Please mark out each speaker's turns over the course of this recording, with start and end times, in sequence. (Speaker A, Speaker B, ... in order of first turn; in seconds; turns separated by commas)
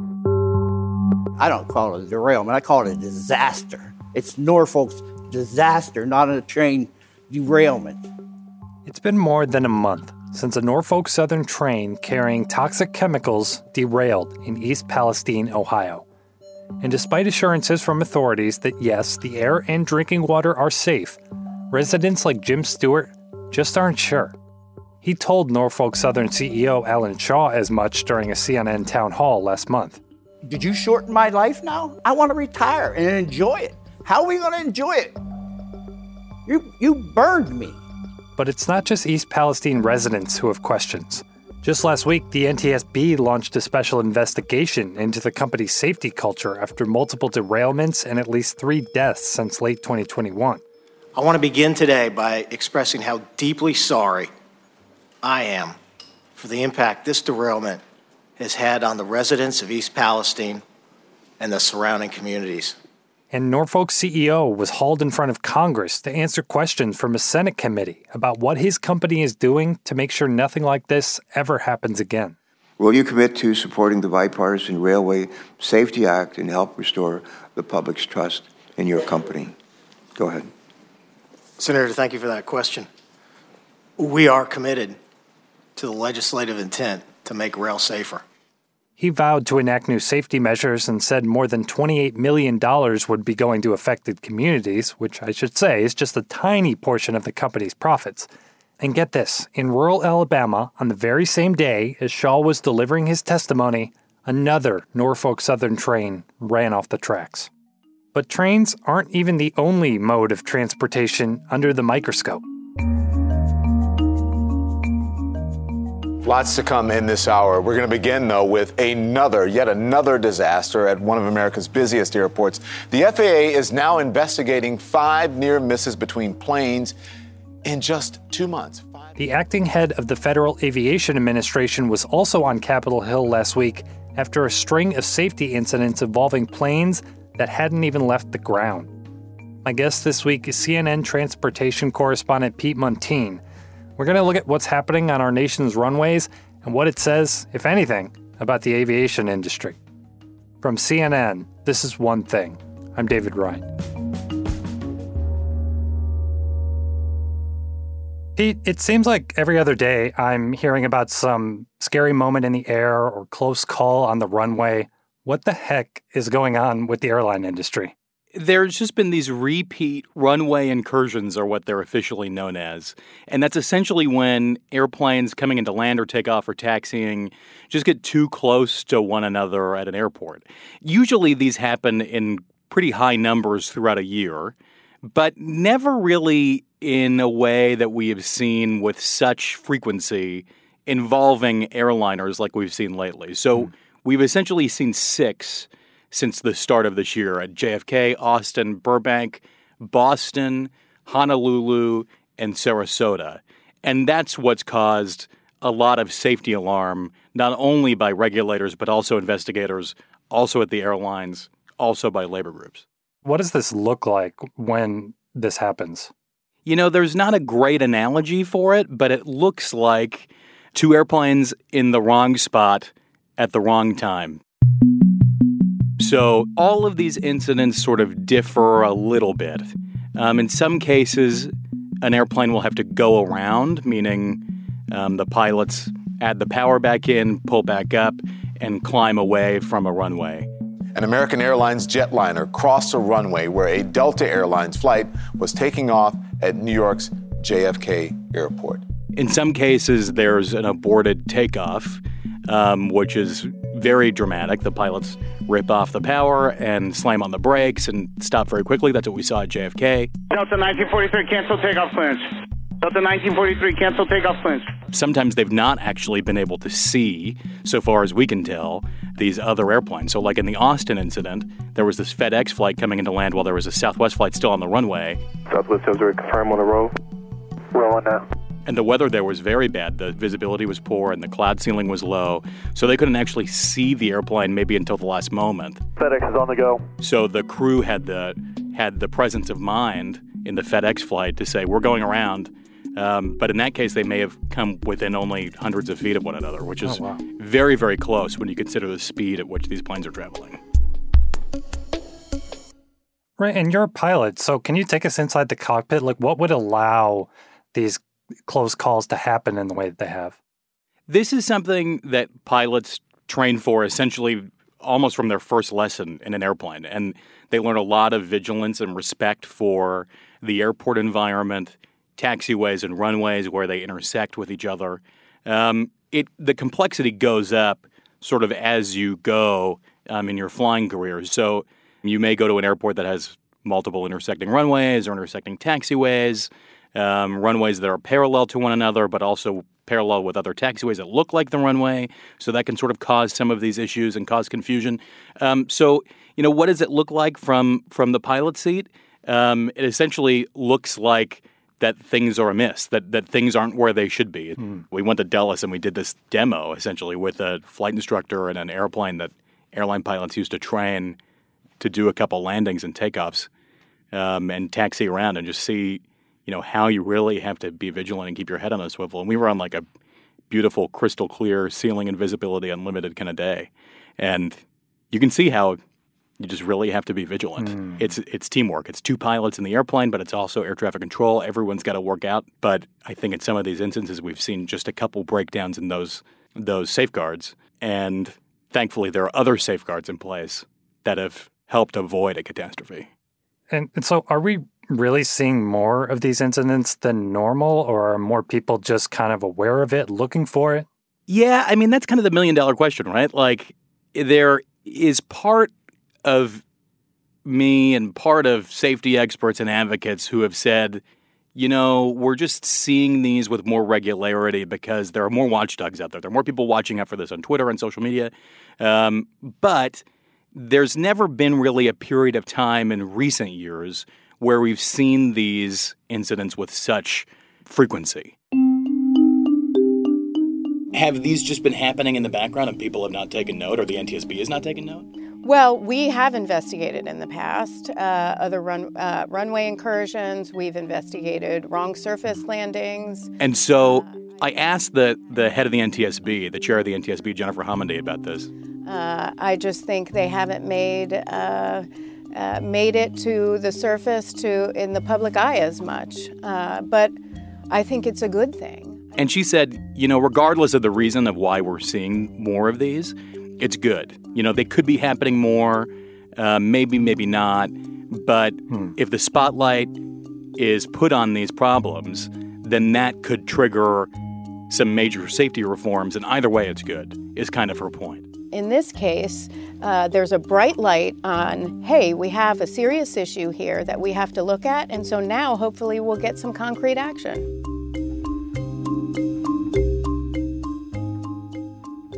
Speaker A: 1.4-8.1, Speaker B: 8.9-16.0, Speaker B: 16.8-21.2, Speaker B: 21.7-24.4, Speaker B: 25.0-30.0, Speaker A: 30.5-35.2, Speaker A: 36.5-37.8, Speaker B: 38.4-50.6, Speaker C: 51.2-54.3, Speaker C: 55.2-55.8, Speaker C: 56.4-57.8, Speaker C: 58.4-60.6, Speaker C: 61.4-62.8, Speaker B: 63.3-72.4, Speaker D: 72.8-79.5, Speaker D: 80.2-80.5, Speaker C: 81.6-82.9, Speaker C: 84.0-85.0, Speaker C: 85.8-88.2, Speaker B: 89.0-98.3, Speaker B: 98.8-107.5, Speaker B: 108.1-112.4, Speaker E: 116.2-127.0, Speaker E: 127.7-129.1, Speaker B: 129.2-138.9, Speaker B: 139.6-143.4, Speaker B: 144.0-149.8, Speaker B: 150.6-153.7, Speaker B: 158.4-167.9, Speaker F: 168.3-184.5, Speaker F: 185.1-212.8, Speaker B: 213.2-216.1, Speaker F: 216.7-224.4, Speaker F: 226.0-231.5, Speaker F: 232.0-240.5, Speaker E: 240.9-248.8, Speaker F: 249.2-260.1, Speaker G: 260.3-262.3, Speaker G: 262.8-264.7, Speaker F: 264.9-275.2, Speaker H: 275.5-276.9, Speaker H: 277.7-278.2, Speaker F: 278.7-285.8, Speaker H: 286.0-286.9, Speaker F: 287.0-300.6, Speaker B: 296.8-297.2, Speaker B: 303.4-310.4, Speaker F: 311.1-361.2, Speaker F: 361.8-363.5, Speaker F: 364.1-369.9, Speaker F: 370.5-375.8, Speaker F: 376.4-393.1, Speaker B: 377.6-378.0, Speaker B: 393.7-400.9, Speaker F: 401.3-405.7, Speaker F: 406.2-406.6, Speaker F: 407.4-411.0, Speaker F: 411.6-420.0, Speaker F: 420.6-428.4, Speaker F: 430.9-435.1, Speaker I: 435.4-444.2, Speaker F: 443.4-448.5, Speaker I: 448.9-457.1, Speaker I: 457.7-459.3, Speaker F: 459.2-469.9, Speaker F: 470.6-474.1, Speaker F: 474.7-478.3, Speaker I: 478.5-487.5